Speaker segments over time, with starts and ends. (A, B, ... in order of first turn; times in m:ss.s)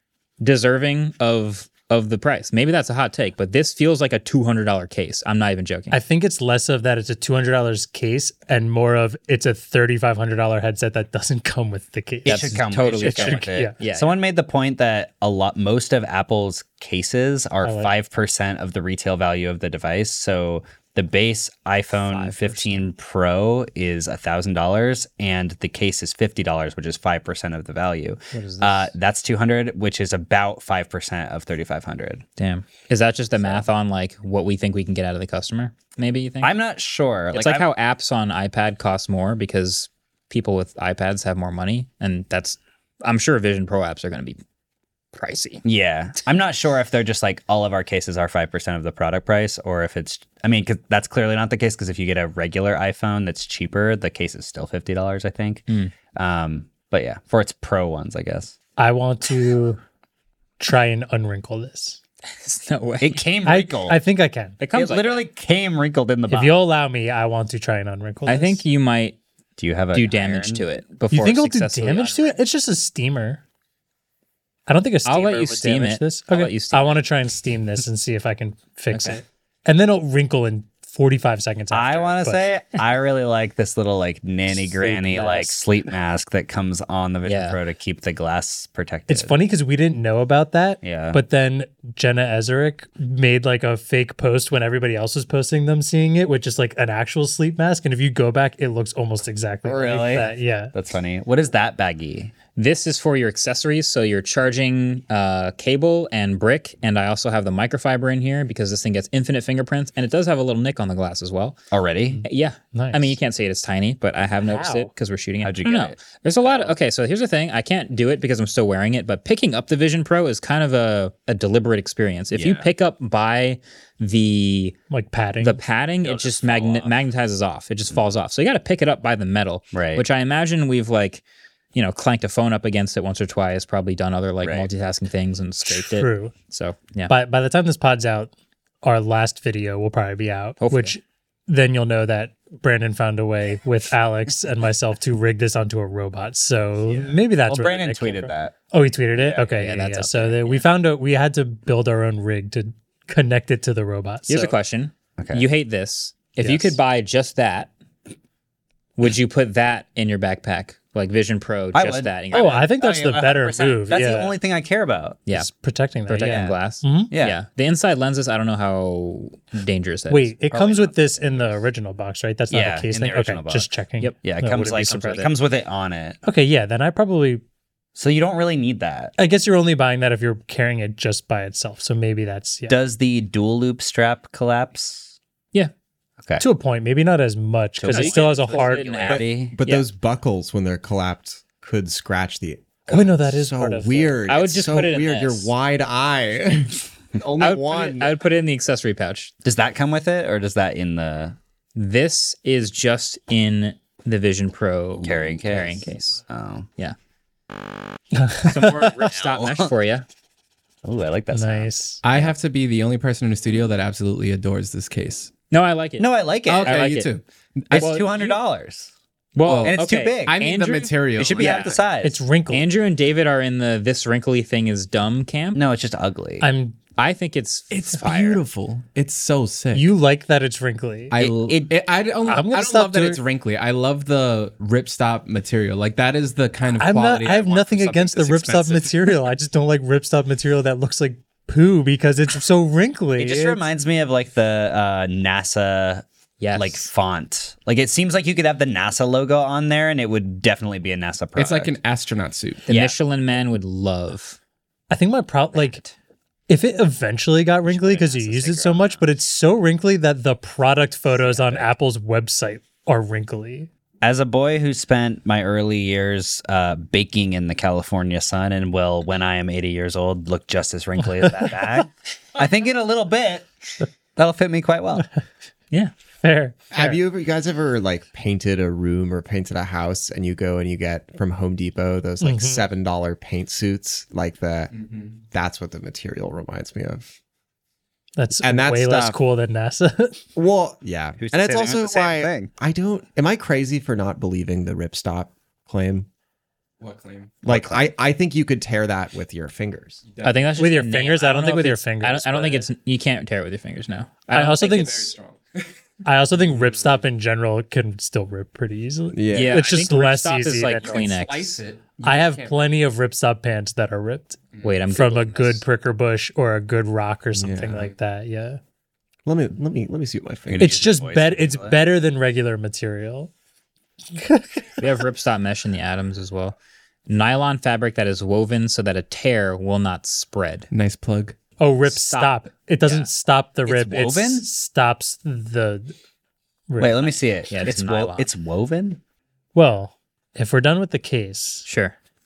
0:00.4-0:06.0 A
0:05.9-0:13.8 B
0:12.2-0:32.2 C
0:12.3-0:14.1 A
0:17.6-0:17.9 B
0:22.0-0:22.8 A
0:28.3-0:28.9 A
0:32.4-0:36.5 A
0:33.4-0:33.6 C
0:36.4-0:37.7 C
0:37.3-0:44.4 A
0:45.1-0:45.6 A
0:45.6-0:58.6 C
0:55.7-0:55.9 A
0:58.8-0:59.8 B
1:00.6-1:02.0 B
1:02.3-1:03.3 A
1:03.0-1:04.0 C
1:03.4-1:04.6 B
1:04.6-1:05.2 A
1:04.7-1:06.6 C
1:06.3-1:08.6 B
1:08.3-1:09.2 A
1:09.6-1:10.6 C
1:09.9-1:12.4 A
1:11.1-1:13.4 B
1:14.7-1:22.4 B
1:15.0-1:17.0 A
1:18.9-1:19.2 A
1:21.7-1:29.3 C
1:24.8-1:25.5 B
1:24.9-1:25.6 A
1:27.2-1:27.6 A
1:29.1-1:40.7 B
1:30.8-1:31.2 C
1:39.6-1:42.3 C
1:42.6-1:51.6 A
1:51.7-1:52.2 C
1:52.2-2:04.8 A
1:52.7-1:53.2 B
1:54.4-1:54.9 B
1:55.4-1:56.8 C
2:02.3-2:02.7 C
2:04.9-2:05.6 B
2:05.4-2:11.2 A
2:06.0-2:06.9 C
2:09.7-2:10.0 C
2:11.7-2:17.1 A
2:14.4-2:14.7 C
2:15.7-2:16.3 B
2:17.1-2:18.3 B
2:18.8-2:34.5 B
2:20.6-2:21.0 A
2:26.9-2:28.5 C
2:29.2-2:29.4 C
2:29.4-2:30.6 A
2:34.3-2:37.7 A
2:35.2-2:35.4 C
2:36.4-2:36.8 B
2:39.0-2:42.7 A
2:41.7-2:45.2 C
2:42.3-2:44.3 B
2:45.3-2:47.1 B
2:46.1-2:50.3 A
2:46.2-2:46.6 C
2:47.1-2:47.4 C
2:50.1-2:55.3 B
2:50.5-2:51.5 C
2:52.5-2:53.7 C
2:54.2-2:56.2 C
2:54.7-2:55.3 A
2:56.2-2:57.4 B
2:58.0-2:59.1 C
2:59.2-3:02.8 B
3:02.7-3:05.1 C
3:06.4-3:09.2 B
3:07.8-3:09.5 C
3:07.9-3:09.9 A
3:09.4-3:18.1 D
3:12.9-3:14.2 B
3:14.3-3:15.5 A
3:17.4-3:19.3 A
3:19.4-3:21.4 C
3:21.8-3:26.2 A
3:25.0-3:26.7 C
3:28.2-3:29.0 B
3:28.4-3:30.1 A
3:28.6-3:29.7 C
3:30.8-3:31.7 C
3:31.3-3:32.0 B
3:32.0-3:35.3 E
3:35.5-3:37.1 A
3:36.0-3:36.8 C
3:36.6-3:38.1 E
3:37.7-3:38.9 C
3:37.7-3:38.3 A
3:39.4-3:41.7 A
3:39.5-3:41.8 E
3:39.6-3:40.4 C
3:41.2-3:42.2 C
3:42.0-3:42.7 B
3:42.5-3:45.6 A
3:45.6-3:46.5 C
3:46.4-3:46.8 B
3:47.0-3:48.4 A
3:47.7-3:49.9 E
3:49.7-3:51.1 B
3:51.1-3:59.1 E
3:51.2-3:51.7 C
3:52.2-3:53.2 B
3:56.8-4:03.6 B
4:03.2-4:06.0 C
4:06.4-4:06.9 A
4:06.6-4:11.7 C
4:11.4-4:12.6 E
4:12.7-4:14.4 A
4:12.7-4:13.0 C
4:14.9-4:15.8 B
4:15.6-4:15.9 C
4:16.5-4:23.7 B
4:17.6-4:19.1 C
4:21.2-4:21.7 C
4:24.0-4:35.0 C
4:36.2-4:37.0 B
4:36.7-4:44.7 D
4:42.2-4:42.6 B
4:44.7-4:45.2 E
4:45.2-4:47.1 D
4:48.2-4:50.2 B
4:48.4-4:49.2 D
4:50.4-4:56.1 D
4:51.2-4:52.5 C
4:56.8-4:57.4 E
4:57.4-5:00.0 D
4:57.5-4:57.8 C
5:00.1-5:00.5 E
5:00.2-5:04.7 A
5:00.6-5:02.7 B
5:04.3-5:05.1 B
5:04.4-5:05.6 E
5:06.0-5:11.2 B
5:09.1-5:09.7 D
5:09.3-5:11.6 A
5:10.8-5:12.7 E
5:12.0-5:18.6 B
5:14.5-5:14.8 E
5:14.6-5:15.6 A
5:17.4-5:17.9 D
5:19.2-5:20.8 D
5:20.5-5:21.8 C
5:20.6-5:23.3 B
5:24.2-5:24.6 B
5:24.8-5:30.7 A
5:30.7-5:31.4 E
5:31.6-5:35.9 B
5:31.9-5:33.1 A
5:33.6-5:34.5 C
5:36.7-5:37.2 B
5:36.8-5:39.0 C
5:37.5-5:38.3 A
5:39.6-5:41.7 B
5:41.7-5:42.0 A